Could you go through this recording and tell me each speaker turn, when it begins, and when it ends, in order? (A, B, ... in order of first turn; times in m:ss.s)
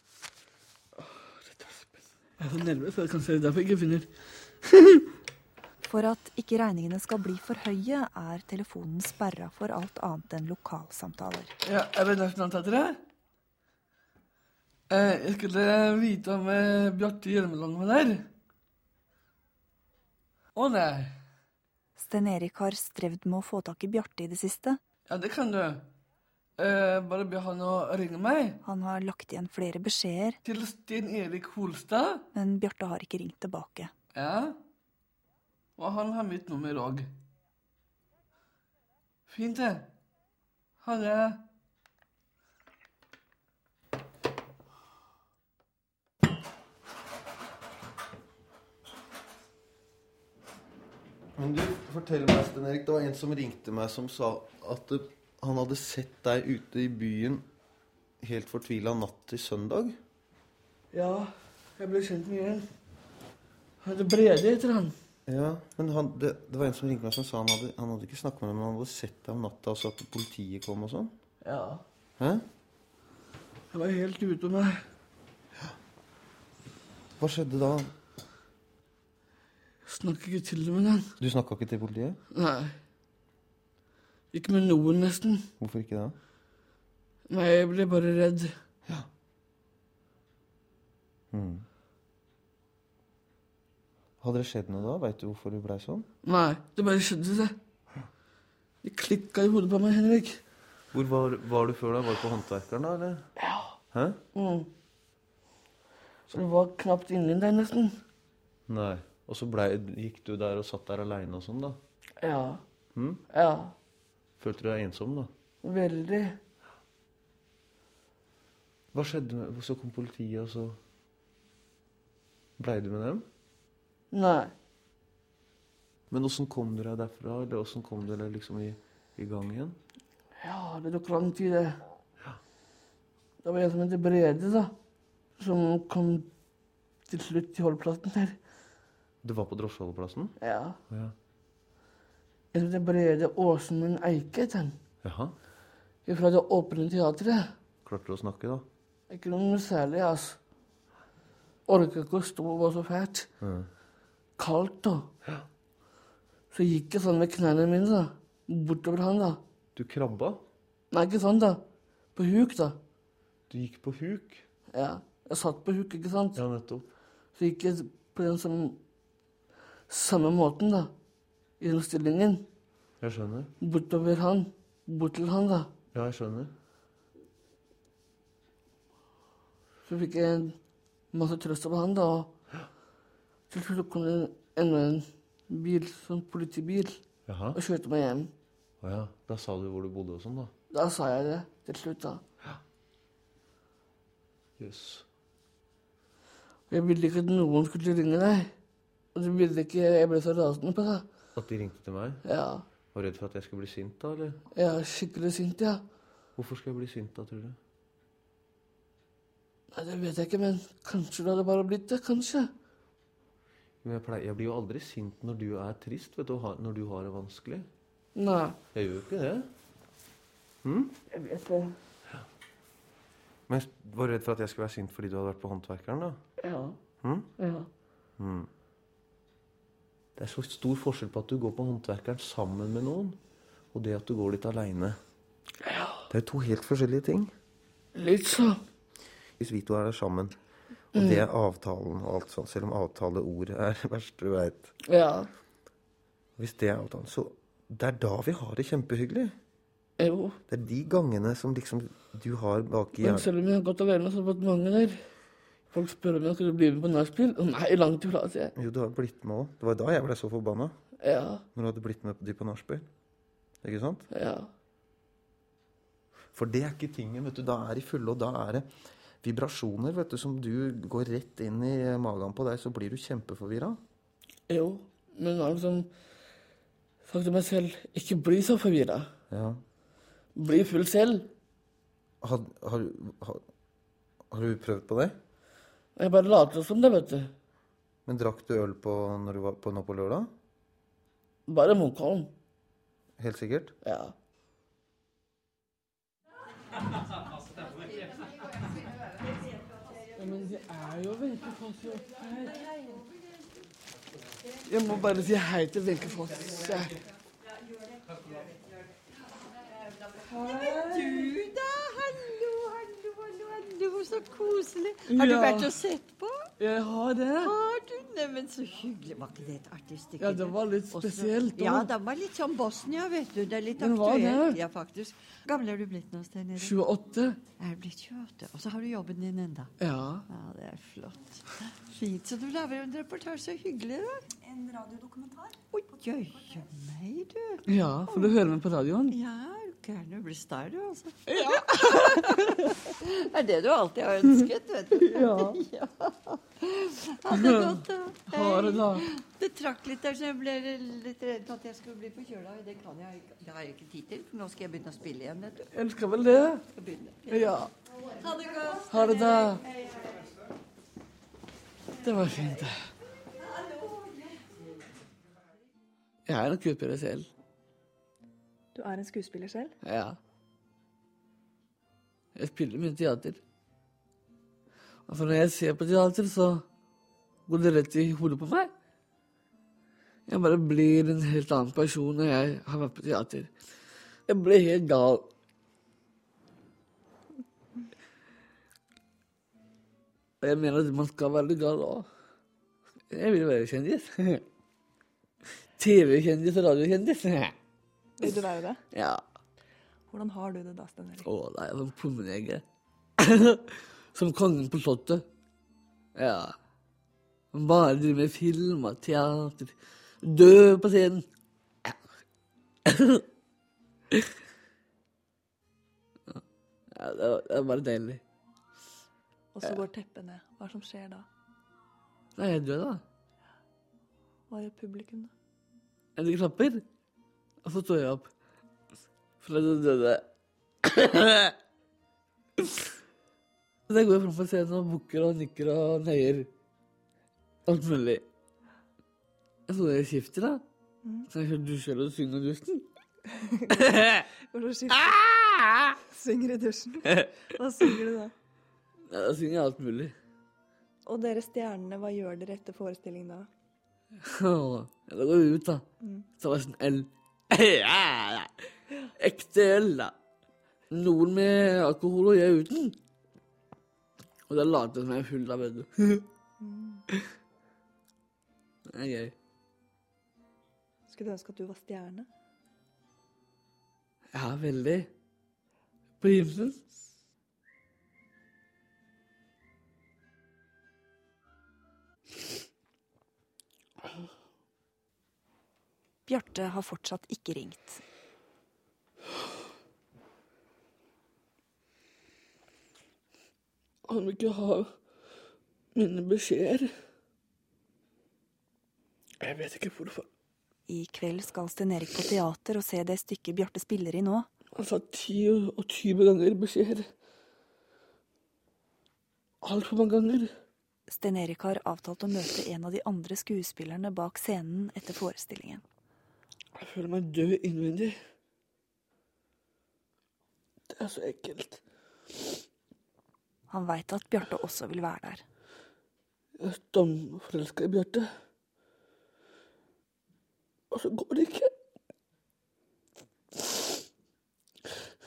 0:01.0-0:04.1 A
0:04.6-0:05.1 A
0:05.8-0:11.5 B
0:11.6-0:13.0 A
0:14.9-0:18.3 A
0:20.6-0:21.1 A
0:22.0-0:24.8 B
0:25.1-0:25.8 A
0:26.6-0:28.6 A
0:28.6-0:30.4 B
0:30.4-0:32.3 A
0:32.3-0:33.9 B
0:34.1-0:34.6 A
0:35.8-0:37.1 A
0:39.3-0:39.9 A
0:40.8-0:41.4 A
0:51.4-0:57.5 C
0:58.2-1:00.0 C
1:00.9-1:02.7 A
1:03.8-1:05.0 A
1:05.3-1:11.2 C
1:11.4-1:11.8 A
1:12.2-1:12.4 C
1:13.7-1:14.8 A
1:17.2-1:17.9 C
1:19.9-1:21.1 A
1:21.2-1:22.2 C
1:22.3-1:22.7 A
1:24.3-1:25.5 A
1:25.6-1:26.2 C
1:27.3-1:28.5 A
1:31.3-1:31.6 C
1:34.2-1:36.1 C
1:36.2-1:37.6 A
1:38.8-1:40.4 A
1:40.9-1:43.3 C
1:43.4-1:43.8 A
1:43.9-1:44.2 C
1:44.4-1:44.7 A
1:46.3-1:48.0 A
1:48.7-1:51.8 C
1:52.2-1:52.6 A
1:52.9-1:53.2 C
1:53.3-1:53.7 A
1:54.4-1:55.3 C
1:55.6-1:56.4 A
1:58.9-2:00.8 C
2:02.6-2:03.3 C
2:04.1-2:04.5 A
2:06.1-2:09.8 C
2:10.4-2:11.8 A
2:13.4-2:14.7 A
2:15.4-2:16.3 A
2:17.1-2:18.4 A
2:19.2-2:20.4 C
2:20.4-2:20.8 A
2:20.9-2:21.2 C
2:22.5-2:24.8 A
2:25.0-2:25.4 C
2:26.1-2:27.5 A
2:27.8-2:28.7 C
2:29.1-2:30.4 A
2:31.7-2:33.3 A
2:33.4-2:33.7 C
2:34.4-2:35.1 A
2:36.5-2:39.4 A
2:39.8-2:40.4 C
2:40.9-2:41.6 A
2:42.2-2:42.8 A
2:43.5-2:44.5 C
2:44.7-2:46.4 A
2:46.4-2:46.9 C
2:47.4-2:48.8 A
2:49.9-2:50.9 A
2:51.6-2:52.5 A
2:53.0-2:53.5 C
2:53.6-2:55.7 A
2:55.9-2:56.5 C
2:59.9-3:00.6 A
3:01.1-3:02.3 A
3:03.5-3:07.0 A
3:07.3-3:07.6 C
3:07.6-3:08.3 A
3:08.8-3:10.5 C
3:10.7-3:12.2 A
3:14.6-3:15.1 C
3:16.7-3:18.5 A
3:19.2-3:21.1 A
3:21.4-3:22.2 C
3:22.2-3:22.6 A
3:22.9-3:24.4 C
3:24.5-3:25.8 A
3:26.4-3:27.6 C
3:29.7-3:32.5 A
3:33.8-3:37.7 C
3:38.2-3:38.6 A
3:38.7-3:39.5 C
3:40.6-3:41.0 C
3:41.1-3:41.8 A
3:43.5-3:46.2 C
3:46.4-3:46.8 A
3:47.0-3:47.3 C
3:47.4-3:47.7 A
3:48.2-3:48.5 C
3:50.2-3:53.2 C
3:53.7-3:55.0 C
3:55.6-3:56.1 A
3:56.1-3:57.3 C
3:58.0-3:58.6 A
3:59.4-4:00.4 C
4:00.9-4:04.7 C
4:01.0-4:01.3 A
4:04.9-4:05.3 A
4:06.4-4:09.4 C
4:10.0-4:10.4 A
4:10.5-4:13.3 C
4:13.0-4:15.0 A
4:15.7-4:18.5 A
4:18.6-4:20.8 C
4:21.0-4:21.4 A
4:21.6-4:22.9 C
4:23.6-4:24.0 C
4:24.1-4:24.5 A
4:26.3-4:28.7 C
4:29.2-4:33.8 C
4:34.5-4:35.9 A
4:37.1-4:39.1 A
4:39.3-4:39.6 C
4:40.4-4:41.3 A
4:42.2-4:43.4 C
4:44.3-4:45.2 C
4:46.0-4:47.3 A
4:48.1-4:50.3 C
4:51.5-4:52.3 A
4:53.2-4:53.7 C
4:53.8-4:54.1 A
5:00.2-5:02.6 A
5:02.4-5:03.2 D
5:04.7-5:07.0 A
5:09.6-5:16.5 D
5:10.3-5:11.3 A
5:15.1-5:15.8 A
5:16.6-5:17.6 A
5:17.4-5:26.8 D
5:20.2-5:21.9 A
5:23.8-5:24.6 A
5:26.6-5:27.4 A
5:27.6-5:29.7 D
5:29.8-5:30.3 A
5:30.3-5:34.3 D
5:35.7-5:38.4 D
5:37.7-5:39.2 A
5:39.1-5:55.7 D
5:41.3-5:42.6 A
5:45.0-5:45.6 A
5:47.3-5:49.0 A
5:55.7-5:56.6 A
5:56.7-5:59.4 D
5:57.3-5:57.7 A
5:58.8-5:59.6 A
6:02.0-6:02.9 A
6:06.3-6:07.3 A
6:08.8-6:09.7 E
6:09.8-6:10.2 A
6:12.4-6:13.4 A
6:15.1-6:16.6 A
6:17.5-6:18.7 A
6:20.3-6:23.5 A
6:24.3-6:25.3 A
6:30.4-6:32.1 A
6:33.1-6:34.4 A
6:35.8-6:37.5 A
6:38.2-6:38.8 E
6:38.9-6:39.2 A
6:40.1-6:41.2 E
6:41.2-6:42.6 A
6:43.2-6:45.2 A
6:46.2-6:46.6 A
6:47.5-6:51.2 A
6:52.9-6:53.2 A
6:57.0-6:58.2 A
6:59.6-7:01.2 E
7:02.4-7:03.0 A
7:04.5-7:05.3 E
7:06.2-7:06.8 A
7:07.6-7:08.3 A
7:09.4-7:10.3 A
7:10.8-7:11.5 A
7:13.9-7:16.5 A
7:17.7-7:18.2 A
7:19.7-7:20.6 A
7:21.3-7:22.8 A
7:23.8-7:24.2 A
7:24.5-7:25.0 E
7:24.9-7:25.7 A
7:26.2-7:27.0 E
7:27.6-7:28.3 E
7:29.1-7:30.1 A
7:31.1-7:33.5 E
7:34.2-7:35.9 A
7:36.4-7:38.5 A
7:39.2-7:40.1 A
7:40.9-7:43.0 A
7:44.5-7:46.2 A
7:46.6-7:47.0 E
7:48.9-7:49.3 A
7:51.1-7:52.3 E
7:54.3-7:55.1 A
7:56.2-7:56.8 A
8:06.3-8:08.0 B
8:14.1-8:14.9 A
8:16.0-8:16.9 A
8:19.4-8:20.3 A
8:20.9-8:24.5 B
8:24.8-8:27.1 A
8:29.6-8:30.5 A
8:31.1-8:35.8 B
8:36.8-8:38.1 A
8:40.9-8:41.8 A
8:43.7-8:45.4 B
8:46.6-8:48.3 A
8:50.9-8:51.7 A